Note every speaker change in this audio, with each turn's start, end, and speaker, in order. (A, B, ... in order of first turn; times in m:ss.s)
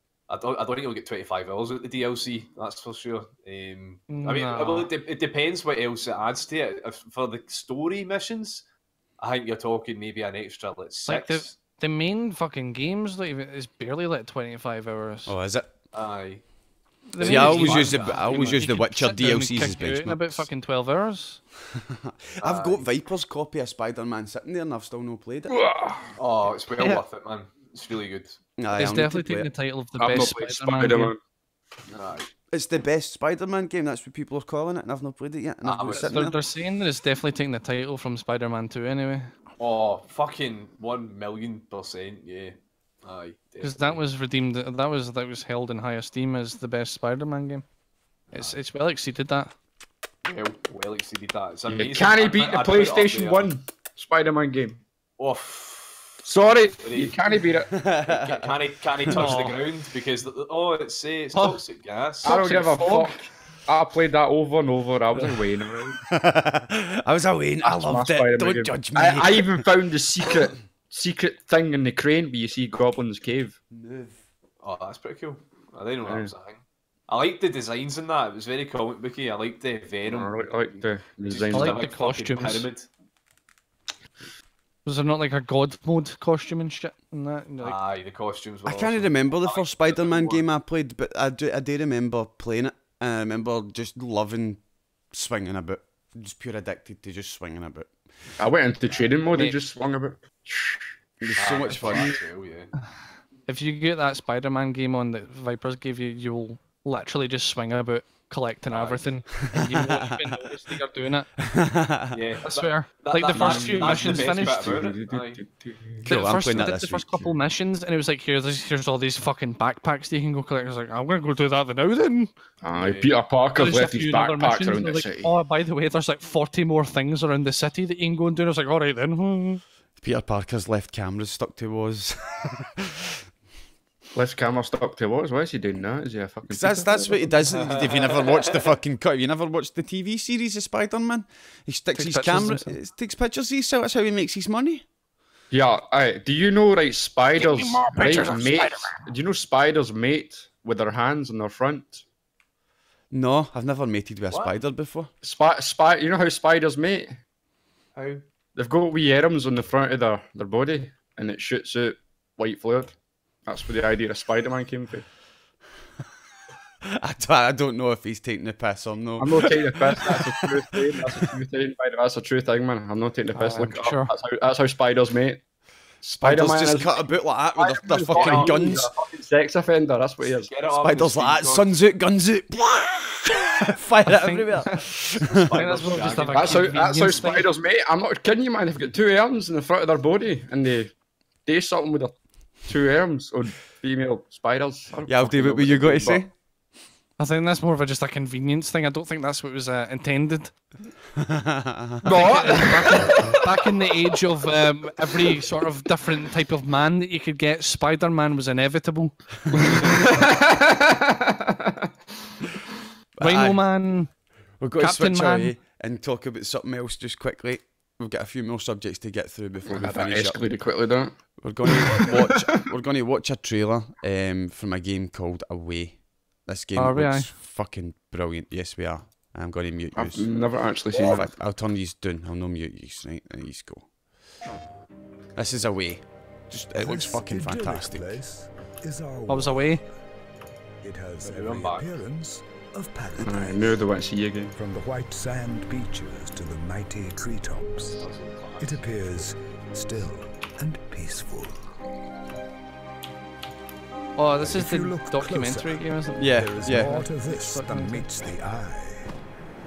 0:00.3-0:08.6 A
0:04.1-0:04.9 B
0:09.2-0:11.5 A
0:11.1-0:15.3 B
0:15.3-0:15.7 C
0:15.9-0:16.4 A
0:17.1-0:21.4 B
0:17.2-0:18.6 A
0:17.2-0:20.5 C
0:21.7-0:25.6 C
0:22.4-0:22.8 A
0:25.5-0:26.1 D
0:26.2-0:28.4 A
0:28.6-0:29.5 C
0:28.8-0:31.1 B
0:30.0-0:31.2 D
0:31.9-0:32.3 A
0:32.5-0:36.4 C
0:35.6-0:36.2 A
0:36.0-0:39.3 B
0:39.6-0:44.0 A
0:43.6-0:47.6 B
0:48.3-0:49.5 B
0:50.2-0:53.5 A
0:51.7-0:54.8 D
0:55.2-0:56.2 A
0:56.2-0:57.8 D
0:56.8-0:57.2 A
0:57.7-0:59.3 C
0:58.0-1:02.4 A
0:59.1-0:59.6 B
1:02.2-1:03.2 B
1:02.2-1:06.0 D
1:06.1-1:09.7 C
1:07.6-1:13.6 D
1:13.7-1:14.2 C
1:14.6-1:22.9 A
1:16.0-1:16.3 D
1:20.0-1:21.8 D
1:21.5-1:22.7 B
1:24.8-1:27.8 B
1:27.6-1:30.4 A
1:28.7-1:34.6 C
1:35.1-1:37.9 C
1:38.4-1:42.2 D
1:39.3-1:39.6 B
1:41.2-1:42.1 C
1:41.4-1:42.7 A
1:43.5-1:51.3 B
1:48.7-1:49.0 A
1:49.6-1:50.5 C
1:51.4-1:52.2 C
1:52.1-1:55.4 A
1:52.4-1:54.8 B
1:53.3-1:56.1 D
1:56.0-1:57.3 C
1:56.1-2:02.3 B
2:02.6-2:05.3 D
2:02.8-2:03.1 A
2:03.5-2:09.6 B
2:10.0-2:13.2 C
2:14.1-2:17.3 D
2:16.4-2:24.8 C
2:17.5-2:18.6 A
2:22.0-2:22.8 B
2:25.5-2:32.0 D
2:27.4-2:29.0 B
2:33.1-2:35.1 C
2:34.3-2:34.6 A
2:35.2-2:37.2 D
2:38.0-2:38.2 A
2:38.6-2:45.1 D
2:46.9-2:51.3 C
2:49.2-2:55.4 D
2:53.3-2:54.1 B
2:56.0-2:57.0 D
2:56.2-2:58.9 C
2:57.6-3:00.5 D
2:58.1-2:58.6 A
3:00.4-3:01.7 A
3:00.8-3:05.6 C
3:04.1-3:04.8 B
3:05.2-3:06.8 A
3:05.4-3:07.5 B
3:06.3-3:10.9 D
3:11.4-3:16.2 D
3:15.1-3:16.3 C
3:17.2-3:20.5 B
3:21.1-3:22.2 C
3:22.0-3:23.4 D
3:22.1-3:29.2 B
3:29.5-3:31.9 D
3:33.2-3:33.6 C
3:33.2-3:34.1 B
3:34.6-3:40.5 C
3:34.8-3:35.6 B
3:39.6-3:42.4 D
3:41.4-3:50.4 C
3:46.8-3:47.3 B
3:50.0-3:51.3 D
3:50.9-3:53.9 C
3:55.4-3:58.2 C
3:56.7-3:59.8 E
3:59.3-3:59.8 B
4:00.8-4:03.8 E
4:01.2-4:02.0 A
4:03.2-4:04.6 D
4:04.5-4:08.0 E
4:08.0-4:08.8 A
4:08.6-4:11.7 E
4:14.2-4:18.1 B
4:14.4-4:19.1 E
4:16.2-4:16.9 C